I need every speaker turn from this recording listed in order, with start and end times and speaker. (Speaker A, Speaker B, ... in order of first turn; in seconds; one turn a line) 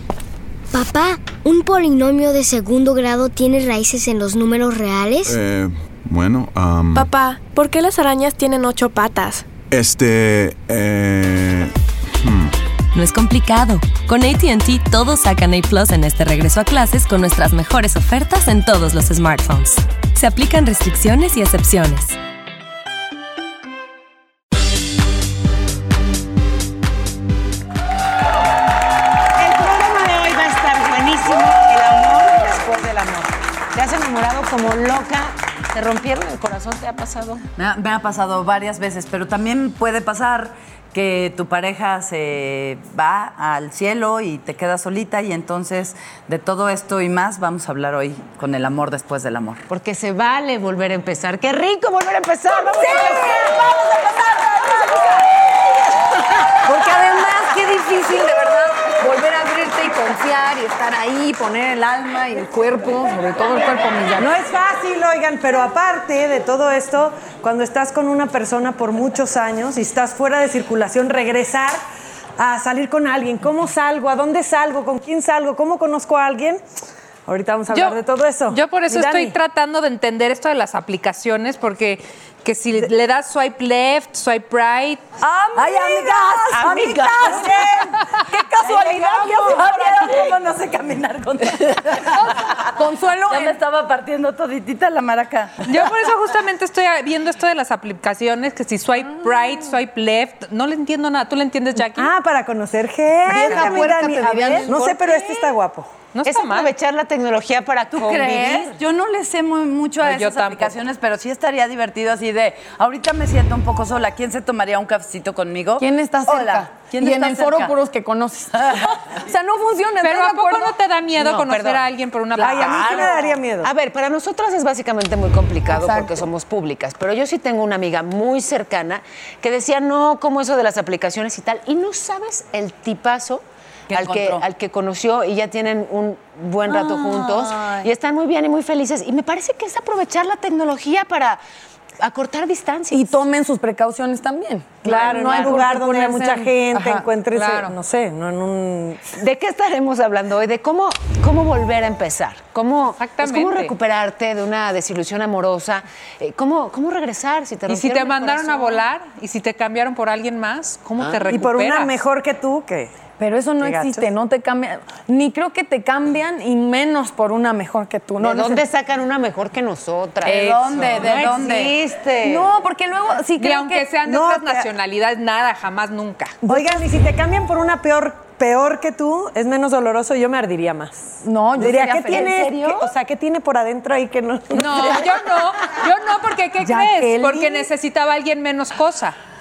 Speaker A: 0.7-5.3
Speaker B: 5.2-7.1
Speaker C: 6.9-9.5
Speaker B: 9.7-12.6
Speaker D: 12.9-22.2
Speaker E: 29.4-37.5
Speaker F: 37.6-49.6
Speaker E: 49.7-53.7
Speaker G: 52.8-55.1
Speaker G: 56.6-64.3
Speaker H: 64.2-71.8
Speaker H: 72.4-76.6
Speaker H: 77.3-79.4
Speaker I: 77.7-85.0
Speaker G: 85.2-87.2
Speaker F: 85.5-92.7
Speaker E: 86.5-87.5
Speaker G: 88.2-90.2
Speaker G: 92.1-93.6
Speaker F: 93.2-95.8
Speaker I: 95.7-102.1
Speaker H: 101.9-105.9
Speaker G: 103.3-105.1
Speaker F: 103.3-104.7
Speaker I: 103.5-103.7
Speaker I: 106.1-106.7
Speaker E: 106.2-108.8
Speaker F: 107.9-117.8
Speaker I: 110.0-110.7
Speaker G: 115.8-120.8
Speaker F: 118.6-118.9
Speaker I: 120.0-123.2
Speaker E: 121.2-121.9
Speaker H: 122.4-123.7
Speaker F: 122.7-123.1
Speaker E: 122.9-141.4
Speaker G: 125.7-126.2
Speaker F: 133.9-134.4
Speaker F: 136.8-137.9
Speaker E: 142.0-143.1
Speaker G: 142.9-147.1
Speaker H: 144.8-149.1
Speaker I: 145.1-145.6
Speaker I: 147.3-147.8
Speaker E: 149.2-158.8
Speaker I: 153.0-153.7
Speaker I: 157.7-161.9
Speaker H: 161.3-162.9
Speaker G: 163.2-168.7
Speaker H: 163.6-164.1
Speaker E: 168.2-172.5
Speaker F: 170.2-171.8
Speaker G: 172.2-173.9
Speaker I: 173.4-176.4
Speaker H: 174.0-174.7
Speaker H: 176.4-185.2
Speaker G: 176.5-176.8
Speaker G: 181.2-182.9
Speaker I: 184.5-189.2
Speaker G: 186.6-187.7